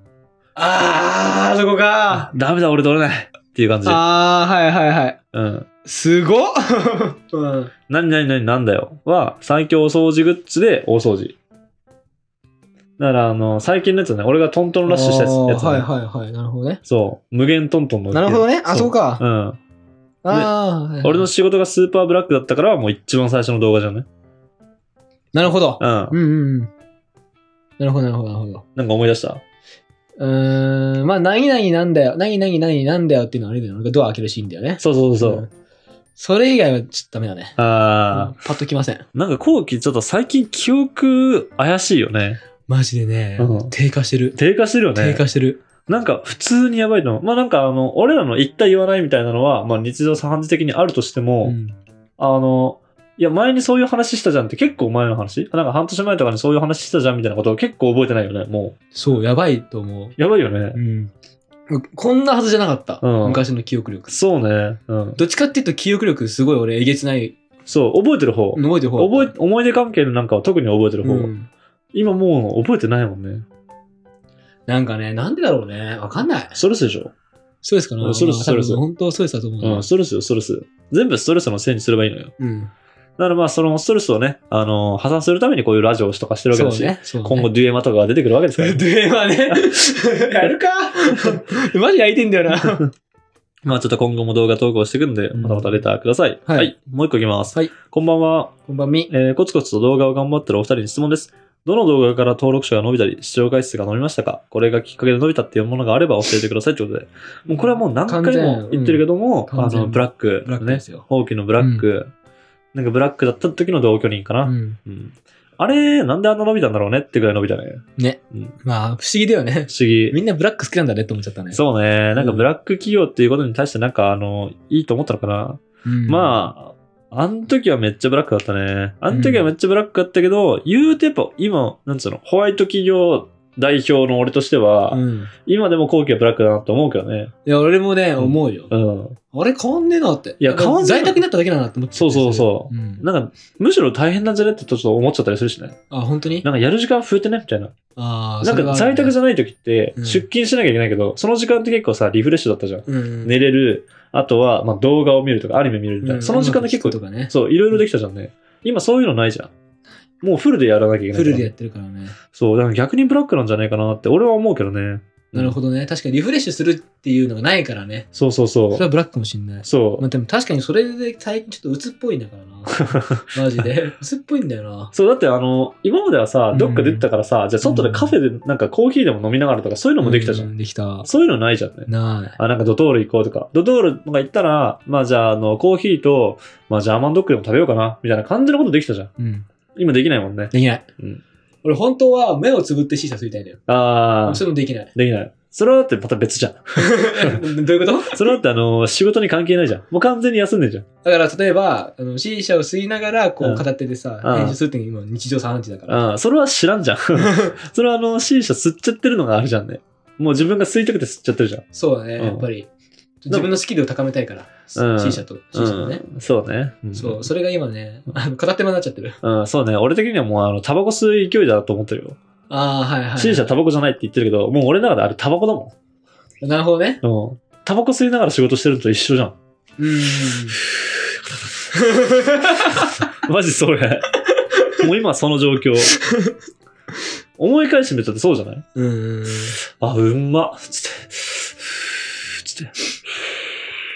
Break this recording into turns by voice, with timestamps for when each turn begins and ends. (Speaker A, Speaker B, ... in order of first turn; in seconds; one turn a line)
Speaker A: 0.6-2.3
Speaker B: 2.1-4.0
Speaker A: 3.8-5.2
Speaker B: 5.3-5.7
Speaker A: 5.8-7.7
Speaker B: 7.9-11.3
Speaker B: 13.0-15.9
Speaker A: 14.8-16.8
Speaker B: 16.9-19.6
Speaker A: 18.1-19.2
Speaker A: 20.2-21.3
Speaker B: 21.0-24.1
Speaker A: 25.3-26.7
Speaker B: 25.8-26.1
Speaker A: 27.8-28.6
Speaker B: 28.7-29.4
Speaker A: 30.2-35.5
Speaker B: 34.8-35.5
Speaker A: 36.2-37.6
Speaker B: 37.6-38.3
Speaker A: 38.1-39.0
Speaker B: 39.1-42.4
Speaker A: 42.7-44.4
Speaker B: 43.4-43.7
Speaker B: 44.3-45.2
Speaker A: 44.9-45.6
Speaker B: 45.9-51.6
Speaker A: 51.4-51.8
Speaker B: 52.2-58.8
Speaker A: 58.9-60.1
Speaker B: 60.1-60.8
Speaker A: 60.7-61.1
Speaker A: 61.7-64.1
Speaker B: 63.0-63.4
Speaker B: 64.1-65.2
Speaker A: 65.2-67.3
Speaker B: 67.7-71.3
Speaker A: 68.5-69.3
Speaker A: 71.0-71.5
Speaker B: 71.9-73.4
Speaker A: 74.7-76.6
Speaker B: 76.5-77.1
Speaker A: 77.6-79.9
Speaker B: 78.0-78.8
Speaker B: 79.6-82.3
Speaker A: 82.4-82.7
Speaker B: 83.2-88.8
Speaker A: 86.5-87.5
Speaker A: 88.5-92.8
Speaker B: 91.1-91.5
Speaker B: 93.7-98.5
Speaker A: 95.3-95.8
Speaker A: 96.5-96.7
Speaker A: 98.7-99.1
Speaker B: 99.1-112.1
Speaker A: 107.5-111.0
Speaker A: 111.6-111.8
Speaker B: 112.7-118.5
Speaker A: 114.4-114.8
Speaker A: 118.0-121.6
Speaker B: 119.7-120.2
Speaker B: 121.5-137.3
Speaker A: 122.1-122.4
Speaker A: 125.8-126.5
Speaker A: 129.1-129.5
Speaker A: 134.9-135.3
Speaker A: 137.4-138.7
Speaker B: 138.2-139.2
Speaker A: 139.3-143.1
Speaker B: 140.4-141.2
Speaker B: 141.9-145.8
Speaker A: 145.9-146.5
Speaker B: 146.4-147.7
Speaker A: 147.9-149.1
Speaker B: 148.4-159.5
Speaker A: 149.9-150.2
Speaker A: 152.8-153.3
Speaker A: 156.0-157.8
Speaker B: 160.2-161.5
Speaker A: 161.1-162.2
Speaker B: 162.3-165.6
Speaker A: 165.3-168.1
Speaker B: 168.1-168.8
Speaker A: 168.7-174.9
Speaker B: 169.6-170.0
Speaker B: 172.8-173.3
Speaker B: 174.9-180.5
Speaker A: 176.5-177.0
Speaker A: 177.6-178.1
Speaker A: 180.0-181.1
Speaker B: 181.0-189.1
Speaker A: 181.9-182.3
Speaker A: 189.2-189.4
Speaker B: 189.8-191.2
Speaker A: 190.5-190.8
Speaker A: 191.6-193.6
Speaker B: 193.7-194.4
Speaker A: 194.2-194.9
Speaker B: 194.9-197.4
Speaker A: 196.8-198.4
Speaker B: 198.1-200.8
Speaker A: 201.0-206.0
Speaker B: 203.4-203.6
Speaker B: 204.2-204.6
Speaker B: 205.9-211.6
Speaker A: 207.2-207.5
Speaker A: 211.7-212.7
Speaker B: 212.2-212.5
Speaker A: 213.2-216.0
Speaker B: 214.7-217.3
Speaker A: 216.9-219.2
Speaker B: 219.2-222.2
Speaker A: 222.5-223.5
Speaker B: 223.2-225.7
Speaker A: 226.4-227.0
Speaker B: 227.0-229.3
Speaker A: 229.8-230.6
Speaker A: 231.7-232.9
Speaker B: 232.7-234.2
Speaker A: 234.4-234.8
Speaker B: 234.8-236.0
Speaker A: 235.9-236.3
Speaker B: 237.4-238.6
Speaker A: 238.7-239.6
Speaker B: 239.6-243.5